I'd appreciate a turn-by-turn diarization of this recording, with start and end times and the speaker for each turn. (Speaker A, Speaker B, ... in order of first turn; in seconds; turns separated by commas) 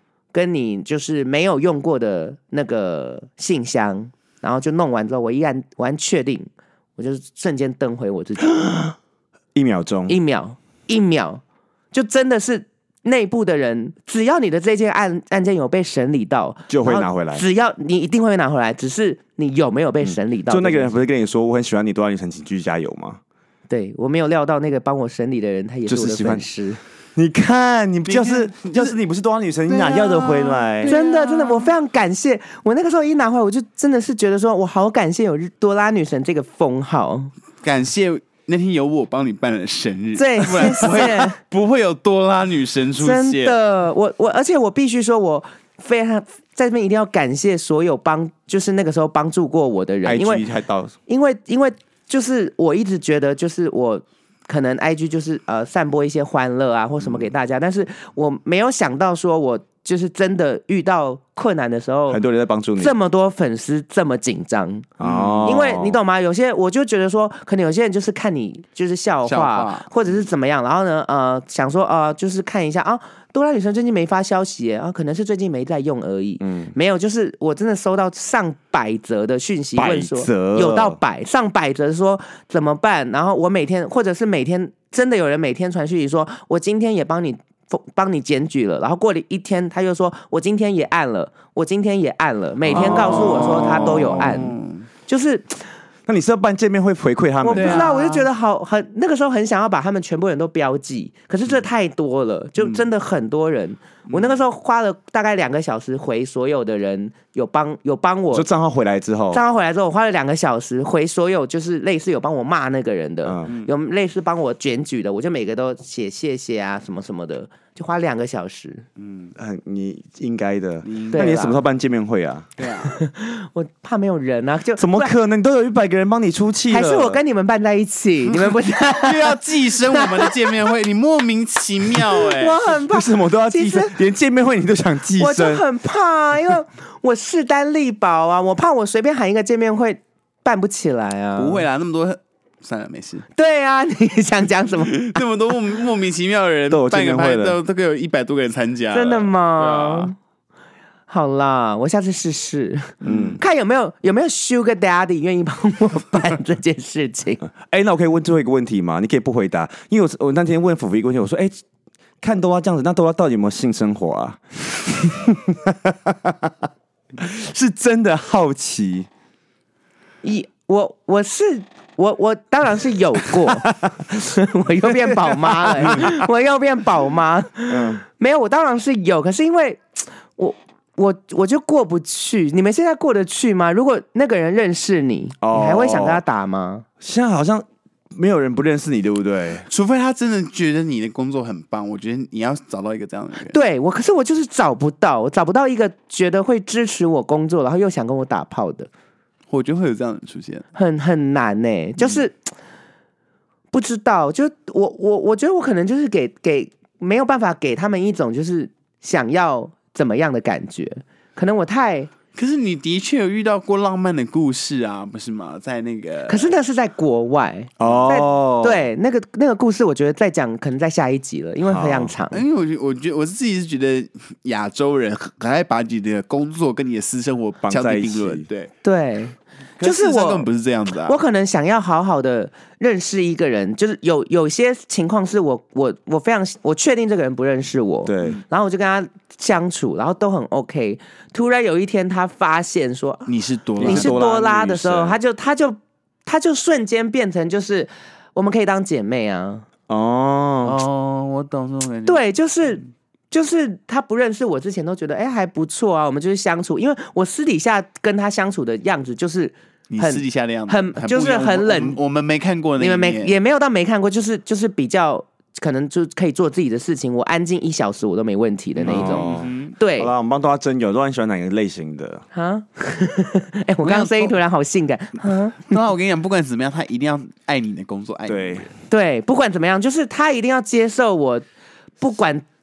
Speaker A: 0.3-8.6, Speaker B: 8.4-8.9, Speaker B: 9.5-10.2, Speaker A: 10.1-11.4, Speaker A: 11.9-20.9, Speaker B: 16.7-17.4, Speaker B: 20.0-23.2, Speaker A: 23.7-26.8, Speaker B: 25.9-26.4, Speaker B: 27.1-30.9, Speaker C: 28.1-28.9, Speaker C: 29.7-31.7, Speaker A: 30.8-37.3, Speaker C: 37.6-43.6, Speaker A: 40.1-41.4, Speaker A: 43.0-50.4, Speaker B: 50.0-50.9, Speaker A: 51.1-62.2, Speaker B: 62.1-62.9, Speaker A: 62.8-94.5, Speaker B: 65.0-66.0, Speaker C: 65.0-65.6, Speaker C: 69.2-69.9, Speaker B: 76.4-76.7, Speaker B: 79.8-81.0, Speaker B: 92.7-94.5, Speaker C: 92.7-94.8, Speaker A: 95.1-95.7, Speaker B: 96.1-97.9, Speaker A: 97.4-108.5, Speaker C: 97.5-98.3, Speaker C: 104.1-104.4, Speaker B: 108.3-109.4, Speaker A: 109.3-118.8, Speaker B: 113.2-113.5, Speaker C: 119.0-119.3, Speaker B: 119.3-122.5, Speaker C: 120.8-121.3, Speaker A: 121.1-121.6, Speaker C: 122.6-122.9, Speaker A: 122.8-125.1, Speaker B: 124.8-127.2, Speaker A: 126.7-130.6, Speaker C: 128.3-132.8, Speaker A: 131.9-133.9, Speaker B: 132.9-135.6, Speaker A: 135.2-141.6, Speaker C: 141.3-143.2, Speaker A: 143.3-145.2, Speaker C: 144.8-150.1, Speaker B: 146.7-147.6, Speaker A: 148.9-150.1, Speaker A: 151.1-157.4, Speaker B: 153.0-153.4, Speaker C: 153.1-153.3, Speaker B: 157.6-161.6, Speaker B: 162.2-166.5, Speaker B: 167.2-169.1, Speaker A: 170.2-186.8, Speaker B: 175.6-176.1, Speaker B: 177.7-178.0, Speaker B: 185.4-186.2, Speaker B: 187.0-189.7, Speaker C: 189.7-193.6, Speaker A: 193.4-198.9, Speaker C: 199.5-200.6, Speaker A: 200.8-202.3, Speaker A: 203.7-212.1, Speaker C: 212.3-216.5, Speaker A: 216.3-222.4, Speaker B: 217.8-218.8, Speaker B: 221.7-222.1, Speaker C: 222.3-228.7, Speaker B: 227.6-228.4, Speaker A: 228.8-230.5, Speaker C: 229.8-231.2, Speaker A: 231.0-243.3, Speaker B: 238.0-238.4, Speaker C: 243.3-244.2, Speaker A: 243.8-249.7, Speaker B: 243.8-245.2, Speaker B: 249.9-250.8, Speaker C: 250.6-252.2, Speaker A: 252.1-262.0, Speaker C: 259.9-263.3, Speaker A: 262.8-270.1, Speaker C: 268.8-269.7, Speaker B: 268.8-272.2, Speaker A: 272.3-275.7, Speaker C: 273.8-274.3, Speaker C: 275.6-278.7, Speaker B: 278.3-278.7, Speaker A: 278.9-281.4, Speaker A: 282.0-282.4